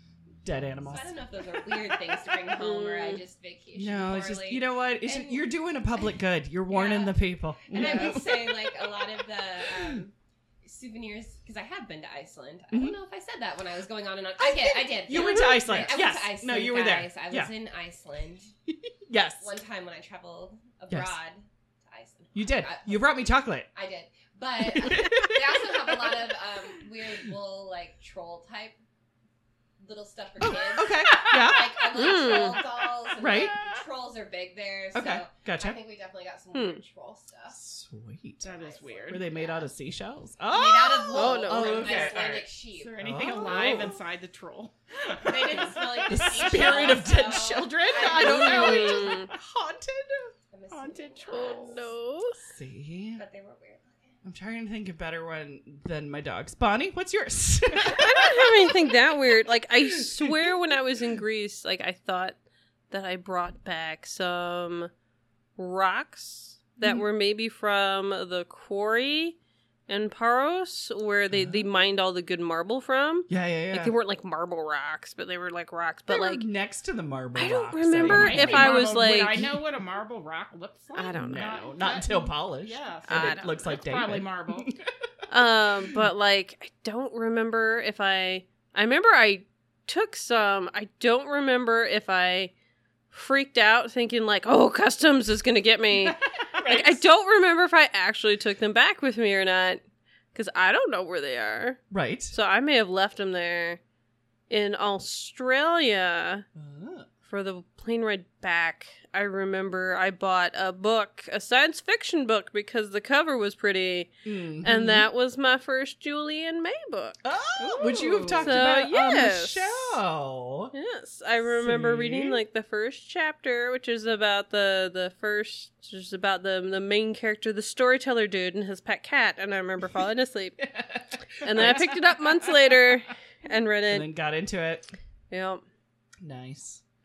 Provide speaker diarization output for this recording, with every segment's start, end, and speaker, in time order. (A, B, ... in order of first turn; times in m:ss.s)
0:00.4-0:01.2 A
0:00.8-0:18.5 B
0:02.6-0:03.2 C
0:03.7-0:09.0 A
0:09.7-0:10.0 A
0:12.7-0:13.0 A
0:14.4-0:17.5 A
0:18.7-0:19.5 A
0:19.4-0:28.8 B
0:20.9-0:21.2 A
0:22.3-0:23.7 A
0:24.6-0:25.6 A
0:29.8-0:37.6 B
0:30.4-0:31.8 A
0:30.9-0:31.5 D
0:31.9-0:32.6 C
0:33.2-0:33.5 A
0:34.9-0:35.8 A
0:36.5-0:36.8 C
0:37.5-0:43.9 A
0:38.4-0:39.2 D
0:38.5-0:39.7 B
0:40.5-0:43.0 B
0:41.1-0:42.1 C
0:42.8-0:47.0 D
0:43.5-0:43.9 C
0:45.1-0:49.2 B
0:46.1-0:50.3 A
0:48.2-0:49.3 C
0:50.5-0:51.9 B
0:50.7-0:51.9 D
0:51.3-0:52.4 C
0:52.4-0:53.2 A
0:53.2-0:54.2 B
0:54.2-0:58.7 A
0:57.8-1:02.4 C
0:59.8-1:00.6 A
1:02.9-1:04.9 C
1:05.6-1:09.4 C
1:09.9-1:16.4 C
1:11.3-1:11.7 A
1:13.3-1:13.9 A
1:16.1-1:18.8 A
1:17.3-1:19.5 C
1:18.0-1:24.8 D
1:20.9-1:21.6 C
1:21.2-1:24.8 A
1:23.1-1:23.4 C
1:25.3-1:32.5 C
1:33.1-1:39.8 C
1:36.6-1:36.8 D
1:36.6-1:37.0 A
1:40.3-1:43.8 C
1:41.9-1:42.3 A
1:44.5-1:46.4 C
1:46.5-1:47.1 A
1:47.2-1:57.2 C
1:54.2-1:55.1 A
1:57.2-2:00.7 A
1:57.6-1:58.6 D
1:57.8-1:59.9 C
2:00.7-2:10.6 C
2:01.6-2:02.4 A
2:10.6-2:12.5 A
2:11.4-2:14.1 C
2:13.9-2:14.8 A
2:15.3-2:15.6 C
2:16.2-2:16.8 A